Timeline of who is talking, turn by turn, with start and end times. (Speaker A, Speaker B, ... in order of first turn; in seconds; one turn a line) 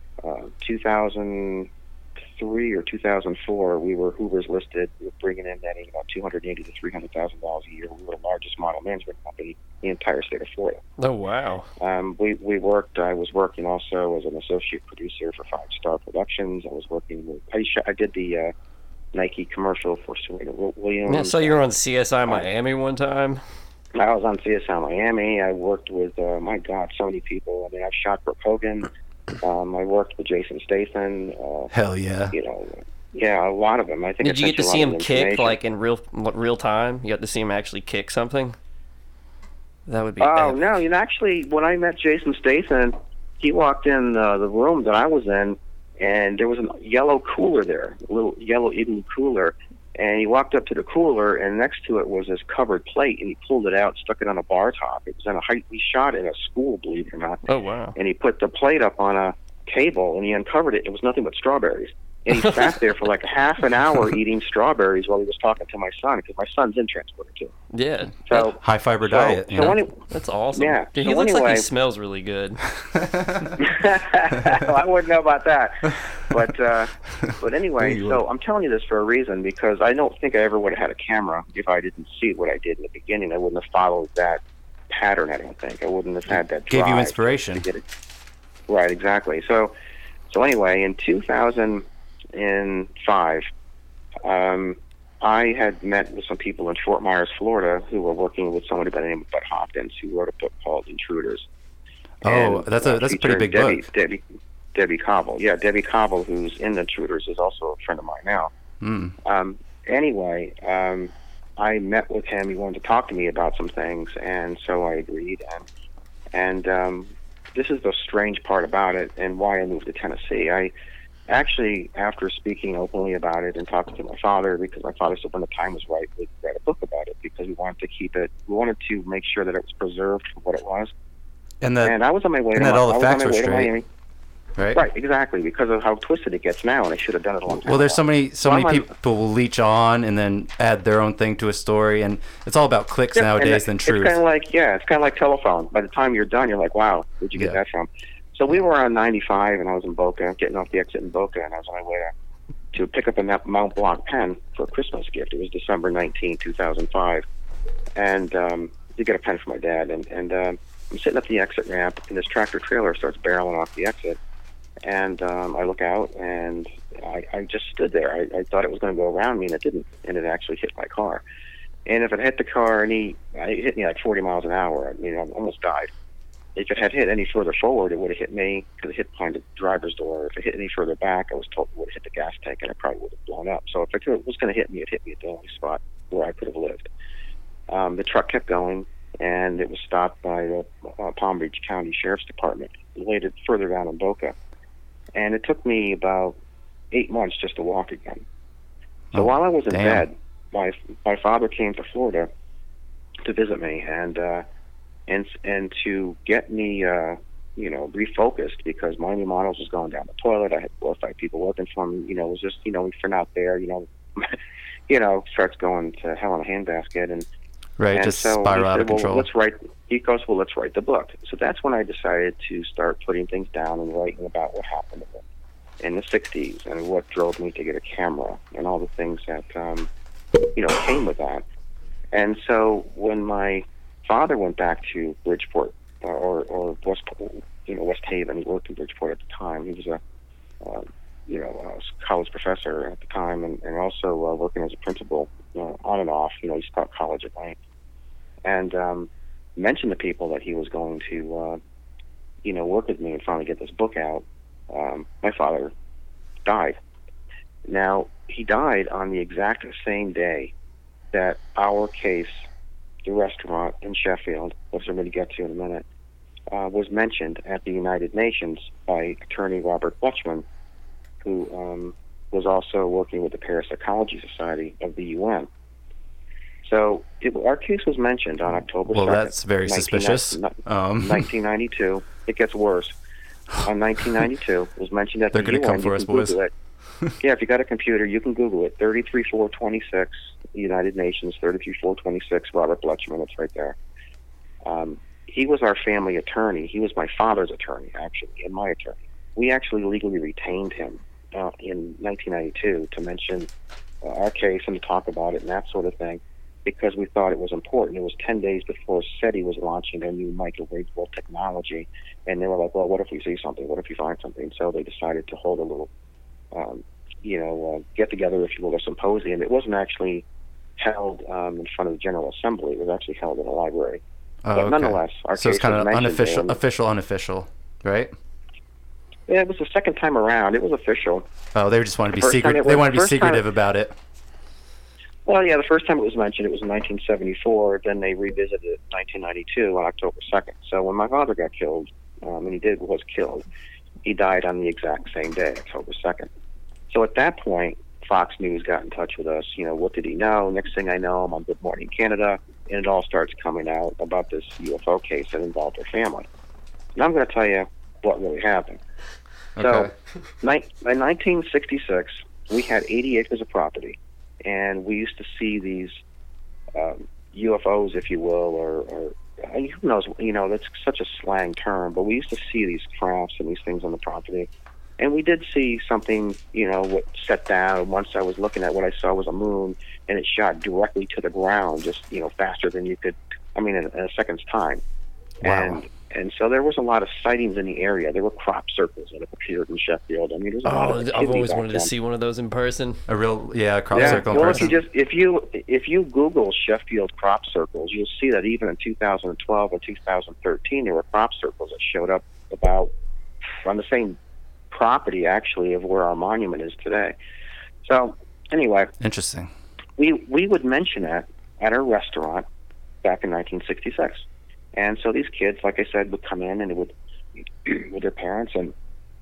Speaker A: 0.2-1.7
Speaker A: 2.4-10.8
Speaker B: 11.0-11.7
Speaker A: 11.8-18.5
Speaker A: 19.1-21.6
Speaker B: 21.1-23.4
Speaker A: 23.9-28.9
Speaker A: 29.4-31.7
Speaker C: 31.7-32.3
Speaker A: 32.3-35.6
Speaker B: 34.2-38.5
Speaker B: 39.9-40.6
Speaker A: 40.2-57.4
Speaker B: 57.5-58.0
Speaker A: 57.9-67.5
Speaker B: 62.3-62.8
Speaker B: 67.7-68.5
Speaker A: 68.3-70.0
Speaker C: 68.6-69.8
Speaker B: 70.1-72.6
Speaker A: 70.5-71.7
Speaker C: 72.9-73.5
Speaker A: 73.6-87.8
Speaker C: 77.2-78.2
Speaker C: 86.7-87.7
Speaker A: 88.7-89.7
Speaker A: 90.3-93.5
Speaker A: 94.2-101.5
Speaker C: 102.2-103.8
Speaker A: 102.2-104.2
Speaker A: 104.7-108.5
Speaker C: 108.8-109.1
Speaker A: 109.2-115.7
Speaker A: 116.3-120.7
Speaker A: 121.3-130.9
Speaker C: 131.6-132.0
Speaker A: 131.8-133.8
Speaker C: 132.5-133.7
Speaker C: 134.6-134.8
Speaker A: 134.7-138.9
Speaker C: 137.6-144.2
Speaker A: 143.1-152.1
Speaker A: 152.7-157.2
Speaker A: 157.9-164.2
Speaker A: 164.8-171.2
Speaker A: 171.8-175.9
Speaker A: 176.6-186.9
Speaker A: 187.7-194.3
Speaker A: 195.1-196.3
Speaker A: 196.9-198.2
Speaker C: 199.1-200.0
Speaker A: 199.1-202.3
Speaker A: 203.2-204.4
Speaker A: 205.1-214.3
Speaker A: 214.9-217.2
Speaker C: 217.8-219.2
Speaker A: 217.9-225.2
Speaker A: 225.8-229.9
Speaker A: 230.6-231.4
Speaker A: 232.1-240.0
Speaker A: 240.6-247.6
Speaker A: 248.4-251.6
Speaker A: 252.4-255.7
Speaker A: 256.4-256.8
Speaker A: 257.6-260.5
Speaker A: 261.1-262.4
Speaker A: 263.0-265.8
Speaker A: 266.5-270.4
Speaker A: 271.2-275.5
Speaker A: 276.6-282.9
Speaker C: 278.9-281.3
Speaker A: 283.6-286.5
Speaker C: 285.3-286.4
Speaker A: 287.2-293.8
Speaker A: 294.6-303.5
Speaker A: 304.0-315.9
Speaker A: 316.5-320.2
Speaker A: 320.8-324.0
Speaker C: 324.4-328.1
Speaker A: 324.5-326.6
Speaker A: 329.3-331.2
Speaker C: 331.5-333.9
Speaker A: 332.1-333.4
Speaker A: 335.2-343.4
Speaker A: 344.0-346.3
Speaker A: 346.9-356.2
Speaker A: 356.9-358.8
Speaker C: 359.6-359.9
Speaker A: 359.6-359.9
Speaker A: 360.4-366.0
Speaker A: 366.7-374.5
Speaker A: 375.0-384.8
Speaker A: 385.4-391.9
Speaker C: 385.4-385.8
Speaker B: 390.6-393.0
Speaker C: 393.1-394.8
Speaker A: 393.9-402.9
Speaker B: 394.0-394.7
Speaker A: 403.6-404.2
Speaker A: 404.7-407.1
Speaker A: 407.8-408.9
Speaker C: 409.0-409.5
Speaker A: 410.0-412.4
Speaker A: 413.0-416.9
Speaker A: 417.6-418.7